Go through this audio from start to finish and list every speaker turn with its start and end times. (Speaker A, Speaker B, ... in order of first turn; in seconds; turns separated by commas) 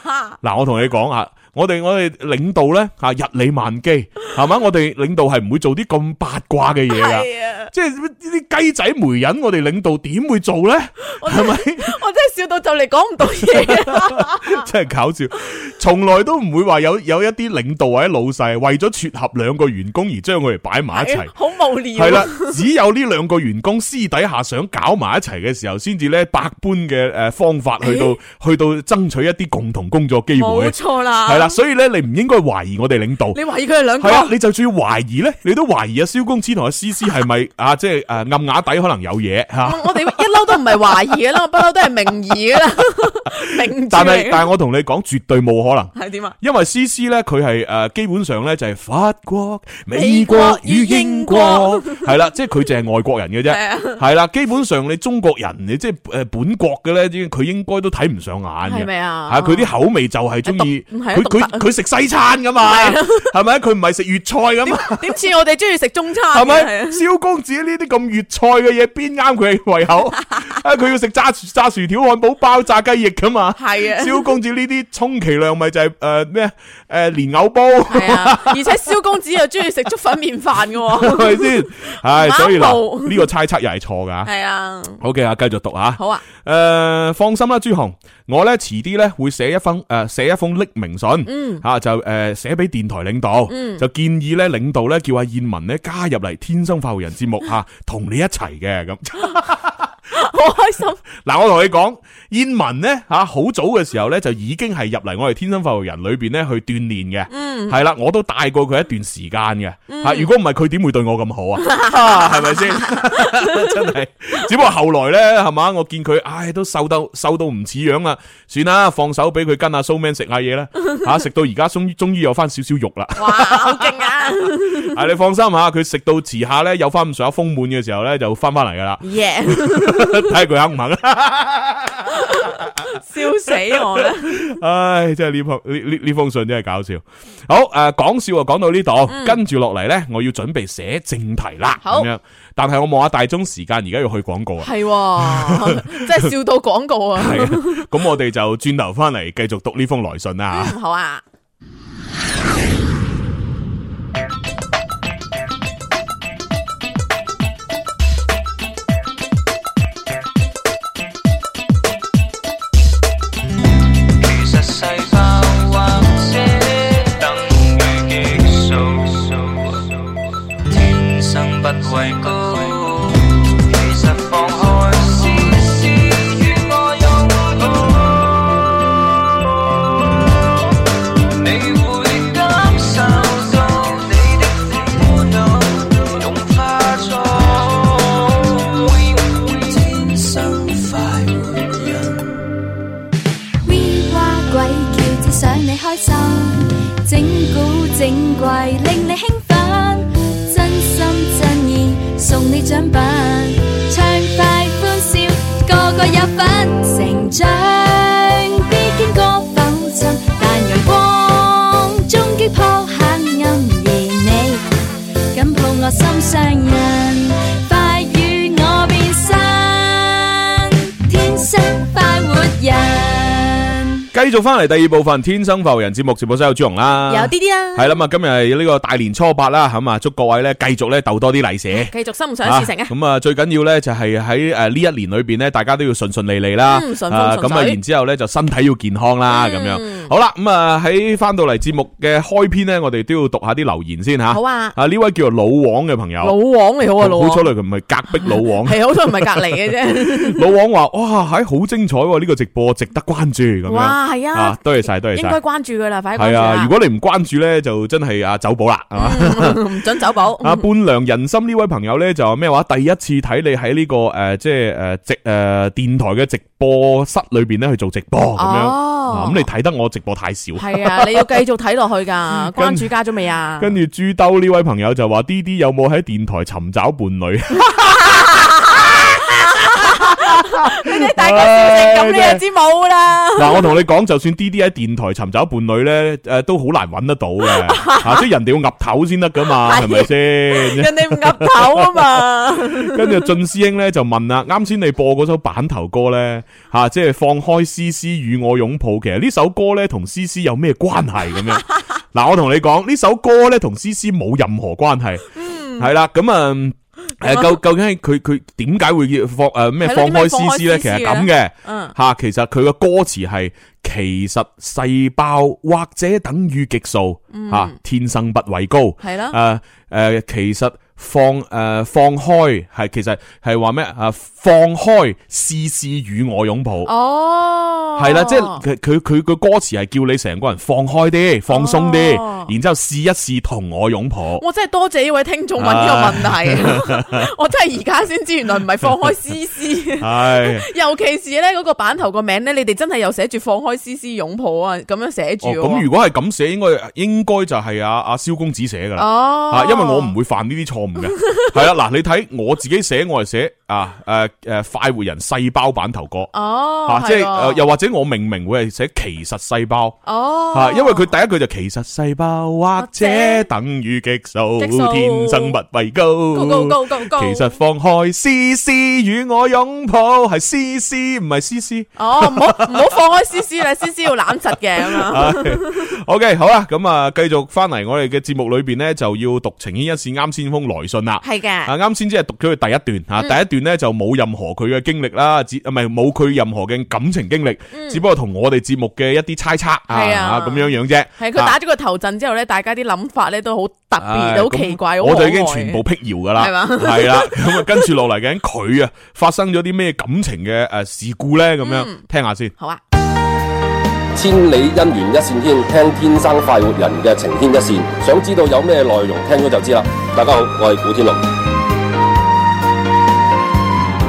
Speaker A: 0.3-11.9, Speaker B: 6.9-7.7, Speaker B: 11.1-14.7, Speaker A: 13.4-21.3, Speaker B: 20.9-22.6, Speaker A: 21.9-33.4, Speaker B: 27.8-28.1, Speaker B: 30.4-31.6, Speaker B: 33.3-34.3, Speaker A: 34.0-40.1, Speaker B: 39.6-44.5, Speaker A: 43.7-65.1, Speaker B: 45.9-46.4, Speaker B: 49.9-52.1, Speaker B: 53.5-54.0, Speaker B: 58.6-59.7, Speaker B: 60.4-61.7, Speaker B: 62.6-63.3, Speaker B: 64.6-67.0, Speaker A: 66.3-78.8, Speaker B: 73.6-74.3, Speaker B: 77.9-83.3, Speaker A: 80.9-84.3, Speaker B: 84.2-85.0, Speaker A: 85.0-99.9, Speaker B: 86.0-86.2, Speaker B: 91.2-91.6, Speaker B: 93.5-93.8, Speaker B: 100.1-101.0, Speaker A: 101.2-132.7, Speaker B: 107.3-107.8, Speaker B: 109.9-110.3, Speaker B: 111.6-113.7, Speaker B: 123.2-125.0, Speaker B: 129.0-130.3, Speaker B: 132.2-134.5, Speaker A: 133.5-146.3, Speaker B: 139.1-139.4, Speaker B: 141.8-142.1, Speaker B: 144.6-147.8, Speaker A: 147.2-150.7, Speaker B: 150.5-151.2, Speaker C: 164.0-178.5, Speaker C: 181.3-192.3, Speaker D: 193.6-214.6, Speaker D: 215.3-224.0, Speaker A: 224.1-231.9, Speaker B: 227.1-228.0, Speaker B: 231.7-232.9, Speaker A: 232.4-246.3, Speaker B: 236.6-237.8, Speaker B: 239.3-240.1, Speaker B: 244.3-244.8, Speaker B: 246.2-247.5, Speaker A: 247.0-255.4, Speaker B: 248.2-250.4, Speaker B: 253.7-256.7, Speaker A: 256.1-259.6, Speaker B: 258.9-260.6, Speaker A: 260.4-271.2, Speaker B: 268.4-269.5, Speaker B: 270.6-273.8, Speaker A: 272.5-272.9, Speaker A: 273.6-279.2, Speaker B: 278.1-283.7, Speaker A: 279.7-282.4, Speaker A: 283.4-305.2, Speaker B: 287.5-288.2, Speaker B: 289.6-293.2, Speaker B: 305.3-305.9, Speaker A: 305.8-326.9, Speaker B: 307.2-307.5, Speaker B: 309.8-311.9, Speaker B: 317.3-317.8, Speaker B: 319.0-319.4, Speaker B: 326.8-328.6, Speaker A: 328.0-334.4, Speaker B: 331.5-332.5, Speaker B: 334.4-345.9, Speaker A: 335.6-337.2, Speaker A: 340.0-340.7, Speaker A: 345.4-356.3, Speaker B: 348.9-350.1, Speaker B: 351.2-351.5, Speaker B: 356.3-357.6, Speaker A: 356.8-360.0, Speaker B: 360.1-361.1, Speaker A: 360.5-372.9, Speaker B: 362.8-363.5, Speaker B: 364.6-365.6, Speaker B: 366.3-367.5, Speaker B: 372.0-375.9, Speaker A: 374.8-391.5, Speaker B: 381.2-381.7, Speaker B: 387.7-388.0, Speaker B: 389.9-395.8, Speaker A: 394.0-402.5, Speaker B: 396.4-397.9, Speaker B: 401.6-402.0, Speaker E: 404.1-411.2